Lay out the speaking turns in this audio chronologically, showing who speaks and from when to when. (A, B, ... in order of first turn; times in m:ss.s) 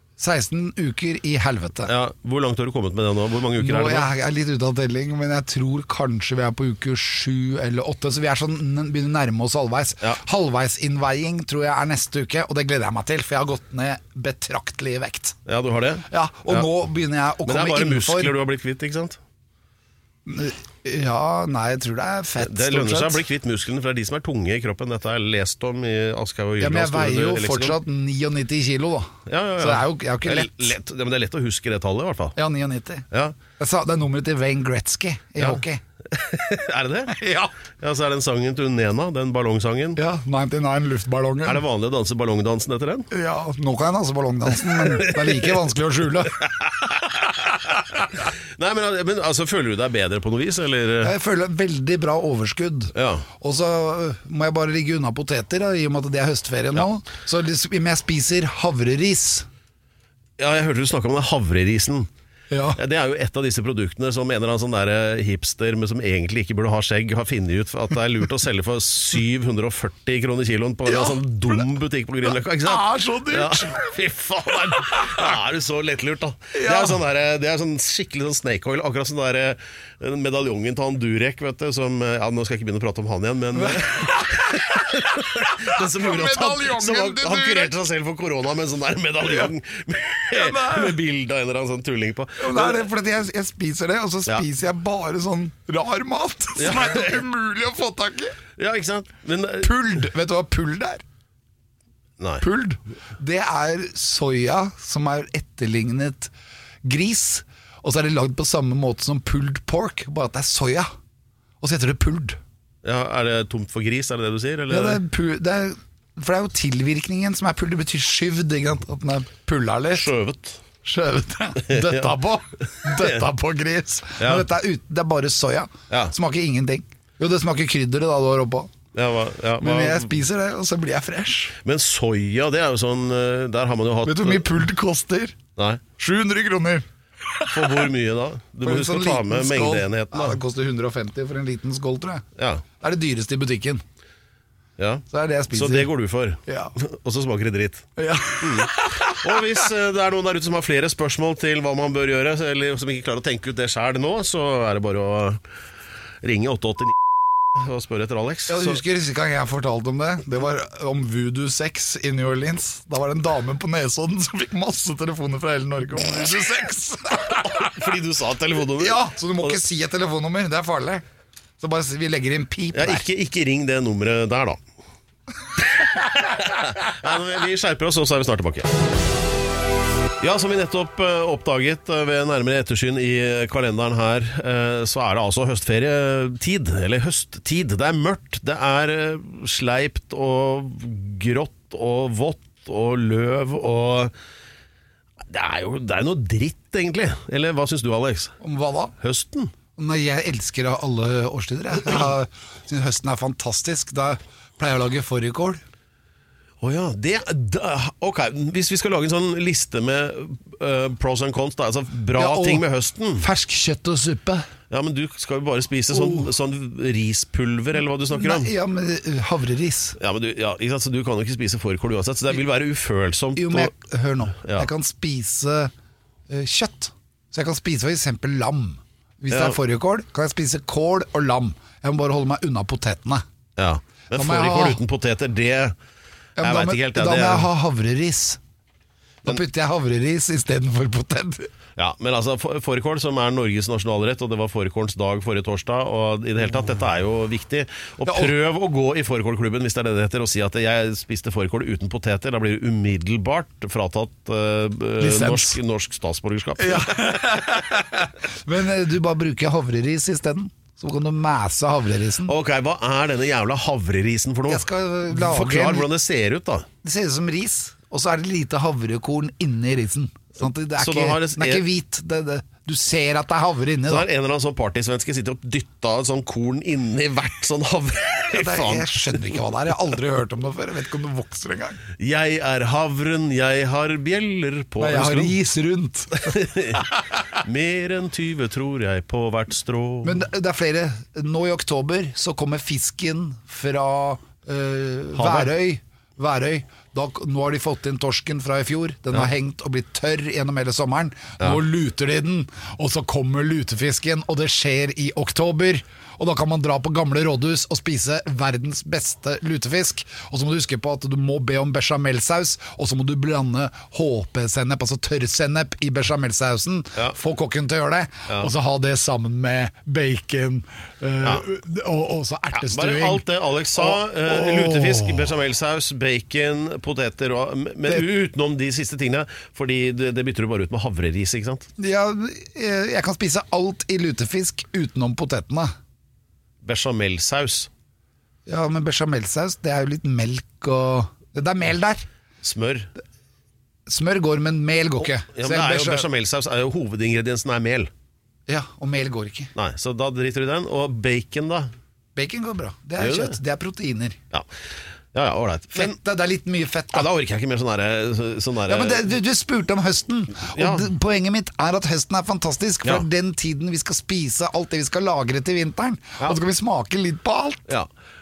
0:00.2-0:01.9 A
0:01.9-0:04.1 B
0:03.6-0:15.4 A
0:15.5-0:16.7 B
0:16.1-0:18.3 A
0:17.5-0:19.2 B
0:20.3-0:23.2 A
0:22.4-0:27.8 B
0:26.6-0:30.8 A
0:29.3-0:32.4 B
0:32.4-0:33.0 A
0:33.1-0:33.4 B
0:33.6-0:35.8 A
0:35.4-0:37.2 B
0:37.1-0:37.5 A
0:37.8-0:40.0 B
0:40.0-0:41.6 A
0:41.4-0:43.1 B
0:43.1-0:46.4 A
0:44.7-0:45.6 B
0:46.5-0:47.5 B
0:48.1-0:51.1 B
0:51.0-0:59.5 A
0:53.0-0:53.3 B
1:00.4-1:02.1 B
1:02.5-1:02.8 A
1:02.8-1:32.9 B
1:10.9-1:11.6 A
1:12.3-1:13.9 A
1:14.8-1:15.3 A
1:16.5-1:17.0 A
1:23.5-1:27.7 A
1:30.3-1:31.0 A
1:32.4-1:38.4 A
1:36.6-1:37.2 B
1:38.6-1:39.7 B
1:39.6-1:41.0 A
1:42.2-1:42.4 B
1:42.4-1:46.3 A
1:46.8-1:50.9 A
1:51.6-1:52.4 A
1:52.8-1:55.0 B
1:54.7-2:00.1 A
1:59.9-2:00.6 B
2:00.8-2:08.7 A
2:01.7-2:02.2 B
2:02.8-2:03.2 B
2:04.2-2:04.5 B
2:05.9-2:06.2 B
2:08.9-2:10.2 B
2:09.6-2:11.6 A
2:11.6-2:14.6 B
2:14.0-2:15.4 A
2:15.6-2:15.8 B
2:16.0-2:17.8 A
2:17.5-2:20.4 B
2:18.6-2:22.2 A
2:22.4-2:22.6 B
2:22.8-2:23.8 A
2:24.8-2:27.9 B
2:25.1-2:25.9 A
2:26.5-2:26.8 A
2:28.0-2:29.6 A
2:28.4-2:35.4 B
2:36.2-2:37.0 B
2:37.5-2:38.8 B
2:38.5-2:47.7 A
2:47.4-2:49.6 B
2:48.8-2:51.0 A
2:51.6-2:53.1 A
2:52.7-2:54.6 B
2:55.6-2:58.8 B
3:00.2-3:14.1 B
3:15.2-3:18.4 B
3:18.4-3:18.9 A
3:19.0-3:19.5 B
3:19.8-3:25.6 A
3:26.6-3:33.3 B
3:32.2-3:32.6 A
3:33.2-3:34.5 A
3:34.7-3:38.5 B
3:35.9-3:36.3 A
3:38.1-3:40.0 A
3:40.0-3:43.7 B
3:43.4-3:45.7 A
3:44.4-3:44.7 B
3:46.3-3:53.2 A
3:49.3-3:49.6 B
3:53.6-3:55.8 B
3:54.1-3:54.8 A
3:56.4-3:58.4 A
3:56.4-3:57.5 B
3:59.2-4:01.5 A
4:01.8-4:17.3 B
4:08.0-4:08.3 A
4:15.0-4:15.6 A
4:16.6-4:22.3 A
4:22.2-4:26.7 B
4:24.5-4:25.9 A
4:26.8-4:34.1 A
4:30.8-4:31.6 B
4:33.9-4:39.4 B
4:38.3-4:41.8 A
4:42.0-4:45.4 B
4:44.8-4:46.9 A
4:46.2-4:46.8 B
4:47.4-4:50.2 B
4:50.0-5:23.2 A
4:55.2-4:55.5 B
5:22.5-5:31.7 B
5:23.8-5:25.3 A
5:31.8-5:35.7 A
5:36.6-5:37.7 B
5:38.5-5:42.1 A
5:42.4-5:42.9 B
5:43.9-5:46.1 A
5:45.0-5:47.9 B
5:48.5-5:49.5 A
5:49.6-5:51.7 B
5:52.2-5:54.2 A
5:53.0-5:53.4 B
5:55.1-5:56.0 B
5:55.7-5:57.1 A
5:56.9-5:59.1 B
5:58.7-6:07.7 A
6:00.4-6:00.9 B